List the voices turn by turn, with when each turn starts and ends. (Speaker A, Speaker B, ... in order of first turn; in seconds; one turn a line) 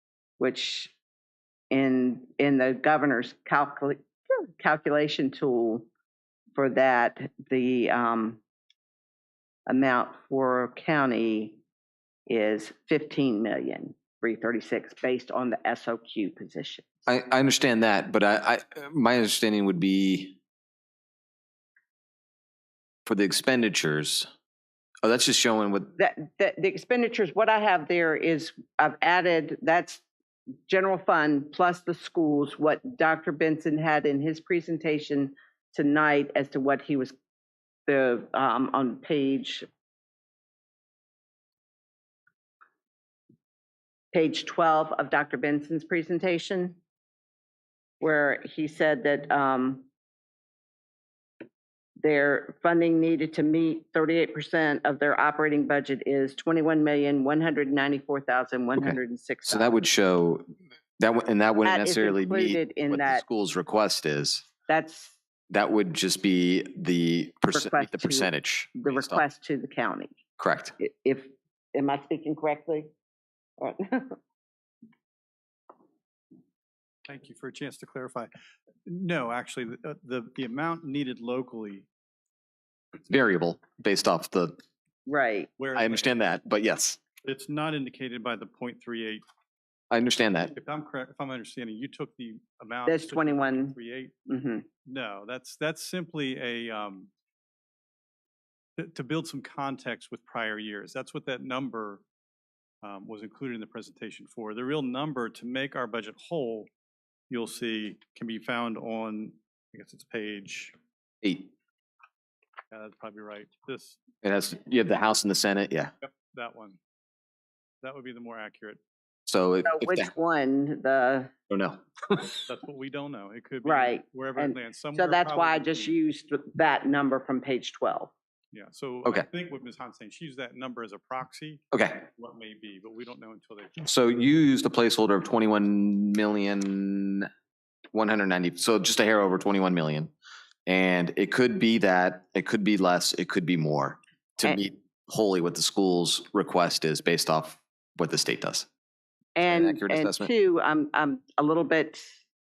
Speaker A: 0.4-0.9
Speaker A: 1.7-5.9
Speaker A: 6.5-8.4
Speaker A: 9.7-11.6
Speaker A: 12.3-16.9
Speaker B: 17.1-20.4
Speaker B: 23.1-24.3
Speaker B: 25.0-25.9
Speaker A: 26.0-30.0
Speaker A: 30.7-37.1
Speaker A: 37.9-39.7
Speaker A: 44.1-46.8
Speaker A: 48.0-49.9
Speaker A: 52.0-59.8
Speaker B: 58.8-64.5
Speaker A: 61.6-63.2
Speaker A: 64.7-65.2
Speaker B: 65.5-69.2
Speaker A: 67.5-70.2
Speaker B: 70.4-70.7
Speaker A: 70.8-72.9
Speaker A: 73.6-74.2
Speaker C: 77.1-78.3
Speaker C: 78.9-81.9
Speaker B: 83.1-84.6
Speaker A: 85.1-85.5
Speaker C: 85.6-86.2
Speaker B: 85.8-87.0
Speaker C: 87.2-89.2
Speaker B: 89.9-90.5
Speaker C: 90.5-94.1
Speaker A: 92.9-94.7
Speaker C: 94.9-97.1
Speaker C: 98.8-102.0
Speaker C: 102.8-106.7
Speaker C: 107.3-110.8
Speaker B: 111.2-111.5
Speaker C: 112.7-114.0
Speaker B: 114.2-115.9
Speaker C: 116.0-116.8
Speaker C: 117.8-118.8
Speaker B: 119.3-120.1
Speaker A: 119.7-121.3
Speaker B: 121.5-121.8
Speaker C: 122.5-125.9
Speaker A: 123.6-128.1
Speaker C: 128.5-133.8
Speaker B: 131.7-132.1
Speaker B: 133.8-137.3
Speaker B: 137.9-140.1
Speaker B: 140.7-148.7
Speaker A: 149.4-152.1
Speaker B: 149.4-150.3